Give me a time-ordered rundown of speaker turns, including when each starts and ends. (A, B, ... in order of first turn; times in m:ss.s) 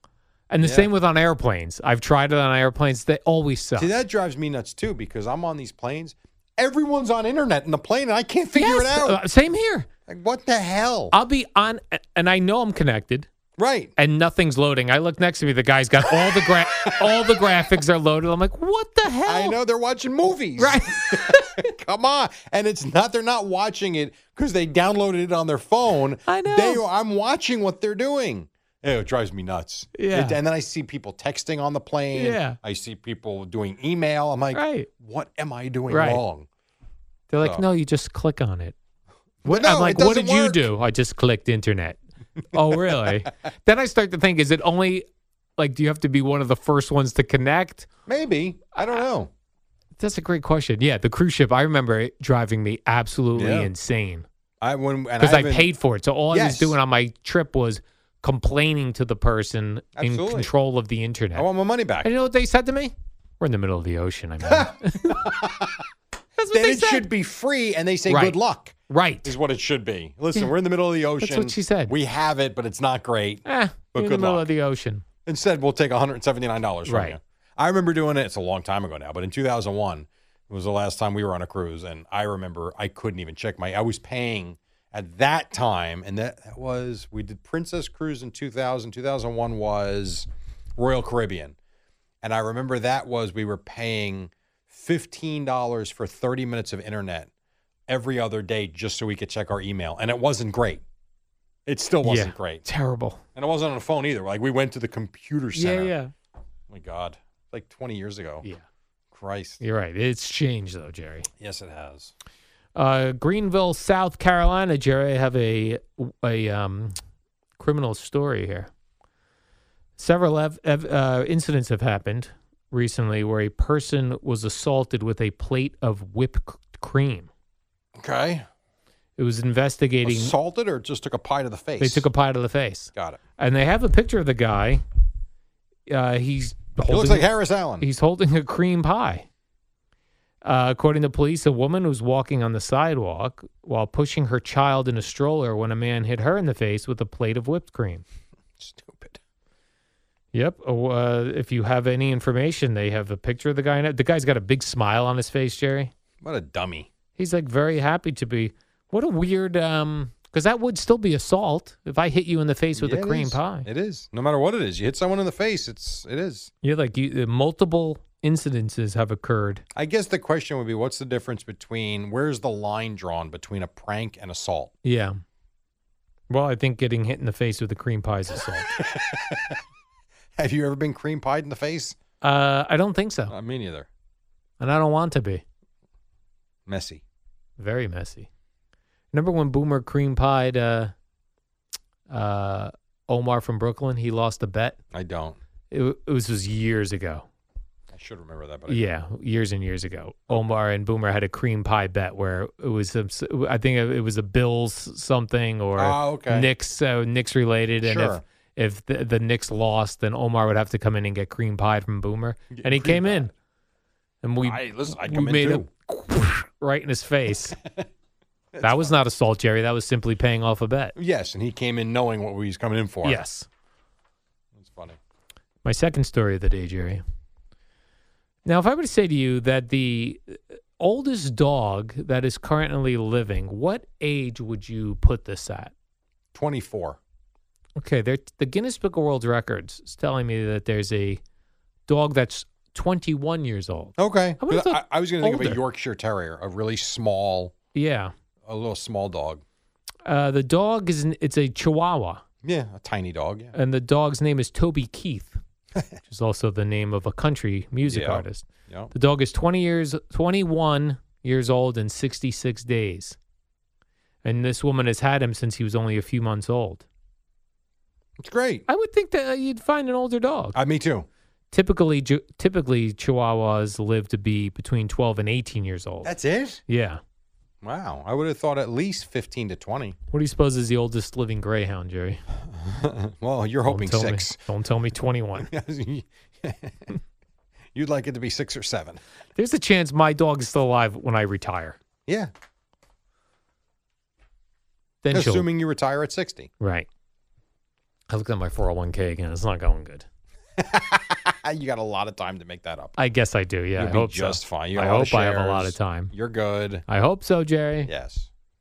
0:00.5-0:03.9 A
0:00.6-0:00.9 B
0:03.8-0:09.2 B
0:08.5-0:09.9 A
0:10.1-0:11.1 B
0:11.1-0:13.3 A
0:13.6-0:13.9 B
0:14.0-0:19.6 A
0:16.1-0:17.4 B
0:19.2-0:36.5 B
0:20.6-0:21.6 A
0:26.3-0:26.8 A
0:30.0-0:30.4 A
0:32.1-0:32.6 A
0:34.5-0:34.9 A
0:35.9-0:36.2 A
0:37.3-0:38.7 A
0:39.4-0:40.7 B
0:39.4-0:42.0 A
0:42.5-0:45.0 A
0:42.7-0:43.1 B
0:45.6-0:47.9 A
0:48.0-0:49.3 B
0:48.8-0:49.0 A
0:50.0-0:54.2 A
0:53.3-0:53.7 B
0:54.6-0:55.7 B
0:55.2-1:01.5 A
0:56.3-0:56.8 B
0:59.9-1:00.5 B
1:01.3-1:02.1 B
1:02.0-1:05.2 A
1:04.4-1:05.8 B
1:06.4-1:07.1 A
1:06.5-1:14.4 B
1:08.1-1:08.4 A
1:08.9-1:09.4 A
1:11.2-1:11.9 A
1:13.4-1:15.0 A
1:15.2-1:31.6 B
1:16.8-1:17.2 A
1:32.2-1:37.3 B
1:37.9-1:40.8 B
1:41.6-1:42.6 B
1:42.0-1:43.2 A
1:43.4-1:45.9 B
1:45.5-1:46.1 A
1:46.7-1:48.4 B
1:49.1-1:49.6 B
1:49.6-1:51.3 A
1:51.4-1:52.1 B
1:52.7-1:56.9 A
1:57.6-1:58.7 A
2:00.0-2:07.3 A
2:08.0-2:08.4 B
2:09.2-2:10.3 A
2:10.0-2:12.1 B
2:11.8-2:14.8 A
2:12.9-2:13.2 B
2:15.9-2:17.3 A
2:16.9-2:17.8 B
2:17.8-2:19.3 A
2:20.4-2:28.0 A
2:28.6-2:29.2 B
2:30.3-2:35.9 A
2:36.2-2:36.9 B
2:37.2-2:43.7 A
2:42.7-2:46.5 B
2:46.6-2:49.6 A
2:49.7-2:54.7 B
2:54.8-2:55.2 A
2:56.3-2:58.7 A
2:58.8-2:59.6 B
3:00.4-3:02.0 B
3:02.2-3:03.3 A
3:03.3-3:03.9 B
3:04.6-3:05.4 A
3:06.7-3:07.0 B
3:07.6-3:08.3 A
3:09.1-3:10.9 A
3:12.1-3:14.8 A
3:14.9-3:15.4 B
3:15.7-3:17.2 A
3:17.9-3:18.8 B
3:18.7-3:33.3 A
3:25.8-3:26.5 B
3:27.8-3:28.2 B
3:32.5-3:33.3 B
3:34.2-3:37.6 A
3:34.4-3:35.7 B
3:38.5-3:39.0 B
3:38.6-3:41.0 A
3:41.0-3:43.2 B
3:43.0-3:43.5 A
3:44.5-3:45.0 B
3:45.6-3:47.0 A
3:48.4-3:55.7 A
3:56.3-3:57.0 B
3:57.8-4:01.2 A
4:01.9-4:05.6 A
4:04.0-4:07.5 B
4:07.7-4:08.1 A
4:08.4-4:09.4 B
4:10.0-4:12.2 A
4:12.4-4:13.5 B
4:13.5-4:15.4 A
4:16.0-4:23.2 A
4:17.9-4:18.9 B
4:24.2-4:26.8 A
4:28.2-4:28.6 B
4:28.7-4:30.6 A
4:30.5-4:31.1 B
4:31.5-4:36.1 A
4:36.0-4:36.6 B
4:36.7-4:37.0 A
4:37.6-4:40.0 B
4:40.1-4:42.2 A
4:42.5-4:44.4 B
4:43.6-4:45.5 A
4:45.4-4:46.9 B
4:47.7-4:49.0 B
4:49.4-4:51.8 A
4:52.0-4:52.3 B
4:55.0-4:55.5 A
4:55.1-4:56.5 B
4:56.6-4:56.9 A
4:58.1-5:00.0 A
5:00.6-5:03.0 B
5:03.0-5:06.1 A
5:03.8-5:06.8 B
5:06.9-5:07.9 A
5:07.9-5:08.3 B